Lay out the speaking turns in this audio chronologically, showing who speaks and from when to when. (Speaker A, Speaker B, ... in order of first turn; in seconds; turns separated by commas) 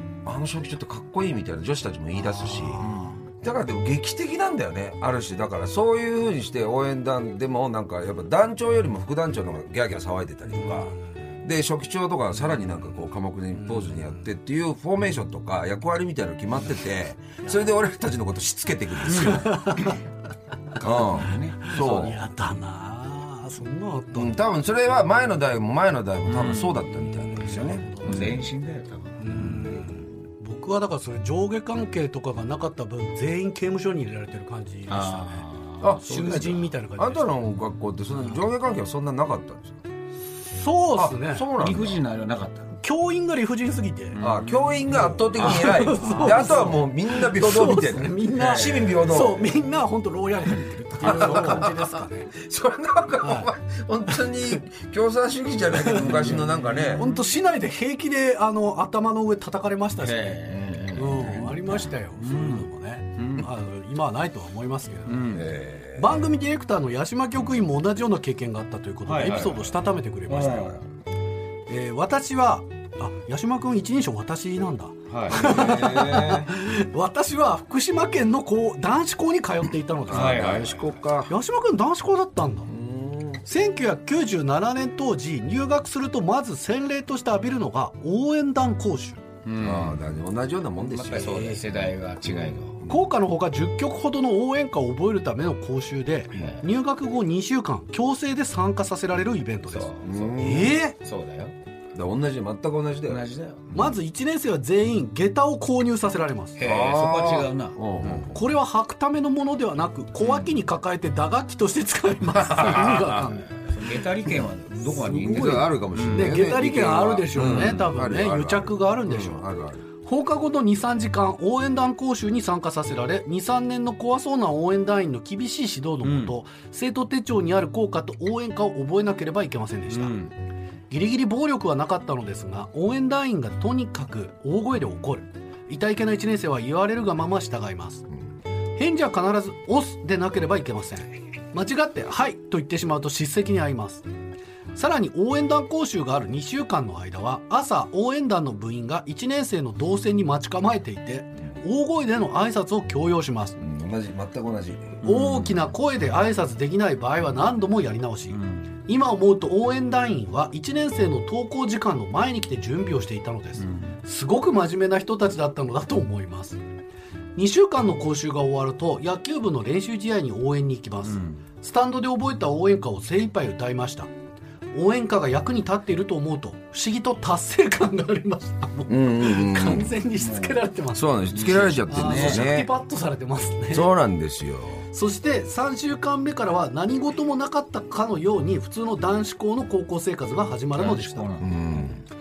Speaker A: 0.2-2.9, Speaker B: 2.1-3.0, Speaker C: 2.8-3.2, Speaker A: 3.4-19.7, Speaker B: 10.6-10.9, Speaker B: 13.7-14.1, Speaker C: 19.1-20.0, Speaker B: 19.2-19.9, Speaker C: 20.8-22.2, Speaker A: 20.8-22.2, Speaker B: 21.7-24.3, Speaker A: 24.1-28.2, Speaker C: 26.2-29.8, Speaker B: 27.2-28.5, Speaker B: 29.2-35.4, Speaker C: 34.9-36.4, Speaker A: 35.8-39.8, Speaker B: 36.0-37.3, Speaker B: 40.5-41.5, Speaker A: 41.0-42.0, Speaker C: 41.6-42.7, Speaker B: 42.8-44.2, Speaker C: 44.1-44.8, Speaker A: 44.2-49.5, Speaker B: 44.9-52.3, Speaker C: 45.3-46.7, Speaker C: 48.3-49.0, Speaker A: 51.0-57.0, Speaker C: 51.0-51.6, Speaker B: 53.2-53.5, Speaker B: 55.8-56.4, Speaker C: 55.9-57.2, Speaker B: 57.0-65.4, Speaker C: 60.0-62.7, Speaker C: 63.2-63.5, Speaker C: 65.1-65.5, Speaker A: 65.3-66.3, Speaker B: 65.9-70.8, Speaker C: 69.0-69.6, Speaker C: 70.3-70.8, Speaker B: 71.7-80.7, Speaker C: 75.1-75.5, Speaker A: 75.3-76.5, Speaker C: 80.1-81.0, Speaker A: 80.1-81.3, Speaker B: 81.2-82.7, Speaker A: 82.7-83.4, Speaker B: 83.4-89.2, Speaker C: 89.5-90.0, Speaker A: 89.6-91.6, Speaker C: 90.8-92.8, Speaker B: 92.8-101.0, Speaker C: 96.3-96.7, Speaker C: 99.7-101.5, Speaker A: 100.0-100.8, Speaker A: 101.9-103.9, Speaker C: 103.1-103.7, Speaker B: 103.7-106.6, Speaker C: 106.5-108.2, Speaker A: 106.6-108.4, Speaker B: 108.1-113.5, Speaker A: 112.3-113.2, Speaker C: 113.6-116.4, Speaker B: 114.8-119.5, Speaker A: 115.2-119.8, Speaker C: 117.3-117.9, Speaker B: 120.0-130.1, Speaker C: 126.0-126.3, Speaker C: 129.9-130.3, Speaker B: 130.9-138.1, Speaker B: 138.8-144.1, Speaker B: 144.7-153.6, Speaker A: 153.6-155.0, Speaker B: 155.0-166.6, Speaker C: 155.1-155.5, Speaker C: 163.6-163.9, Speaker B: 167.3-174.1, Speaker C: 171.0-171.4, Speaker B: 174.7-181.2, Speaker A: 178.9-179.9, Speaker C: 180.2-180.7, Speaker A: 180.9-182.7, Speaker C: 181.3-182.6, Speaker B: 181.9-183.9, Speaker A: 183.7-184.9, Speaker B: 184.9-191.4, Speaker C: 190.7-191.8, Speaker A: 191.4-192.0